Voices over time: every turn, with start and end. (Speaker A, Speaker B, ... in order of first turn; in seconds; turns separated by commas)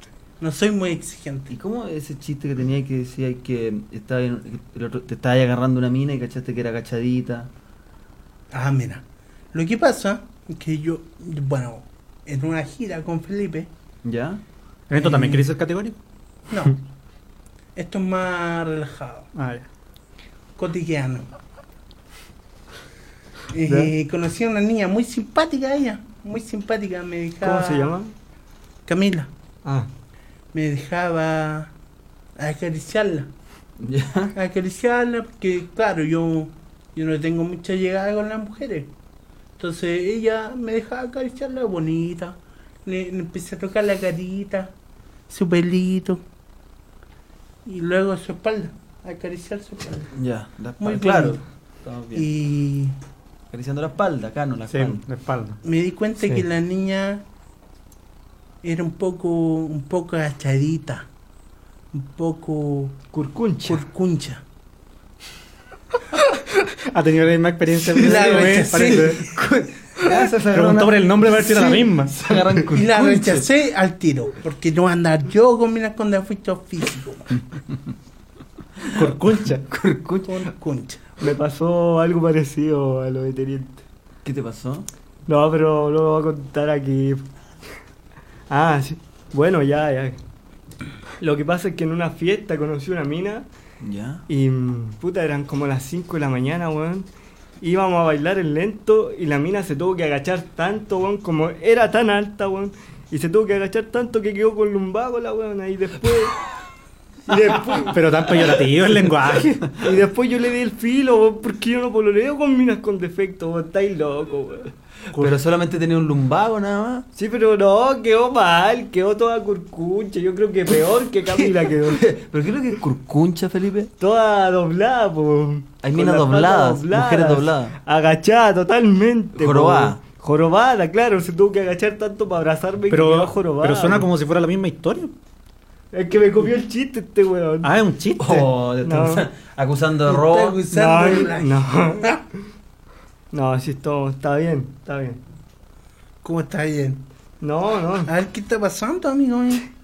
Speaker A: 0.4-1.5, Speaker B: 1.5-7.5, Speaker A: 8.5-13.7, Speaker B: 14.0-14.4, Speaker C: 14.9-15.9, Speaker A: 15.0-15.5, Speaker A: 16.5-16.8, Speaker A: 17.8-19.3, Speaker C: 19.3-19.6, Speaker A: 20.6-21.2, Speaker A: 23.5-28.0, Speaker D: 27.4-28.1, Speaker A: 28.9-29.3, Speaker A: 30.5-31.7, Speaker A: 32.4-33.3, Speaker B: 33.8-34.4, Speaker A: 34.4-38.9, Speaker A: 39.6-44.7, Speaker A: 45.3-46.2, Speaker A: 47.6-50.1, Speaker B: 50.1-52.3, Speaker A: 50.8-51.4, Speaker A: 52.1-52.9, Speaker B: 53.5-55.0, Speaker C: 54.7-55.6, Speaker A: 55.6-57.2, Speaker A: 58.6-61.0, Speaker A: 61.9-63.0, Speaker D: 63.1-63.8, Speaker A: 63.6-64.4, Speaker C: 66.9-69.2, Speaker A: 67.8-69.3, Speaker B: 69.1-69.5, Speaker B: 70.0-73.4, Speaker C: 70.4-72.1, Speaker A: 71.5-71.9, Speaker A: 72.7-77.3, Speaker C: 78.9-79.6, Speaker B: 79.7-80.5, Speaker A: 80.3-81.0, Speaker D: 81.2-83.8, Speaker B: 84.2-84.9, Speaker D: 85.3-87.2, Speaker D: 88.5-90.2, Speaker D: 91.2-93.5, Speaker B: 93.8-94.2, Speaker D: 94.3-97.1, Speaker D: 97.6-106.4, Speaker D: 107.3-108.0, Speaker C: 107.9-109.7, Speaker D: 109.8-114.7, Speaker B: 115.1-117.0, Speaker D: 117.2-122.0, Speaker B: 121.3-123.9, Speaker D: 124.0-134.1, Speaker B: 125.8-127.7, Speaker B: 129.3-130.0, Speaker C: 132.9-135.1, Speaker D: 135.9-137.7, Speaker C: 137.6-138.4, Speaker B: 138.2-140.6, Speaker D: 138.8-139.2, Speaker A: 140.1-142.2, Speaker D: 140.7-142.1, Speaker D: 143.3-145.2, Speaker A: 146.2-147.0, Speaker D: 147.4-148.1, Speaker A: 148.0-149.6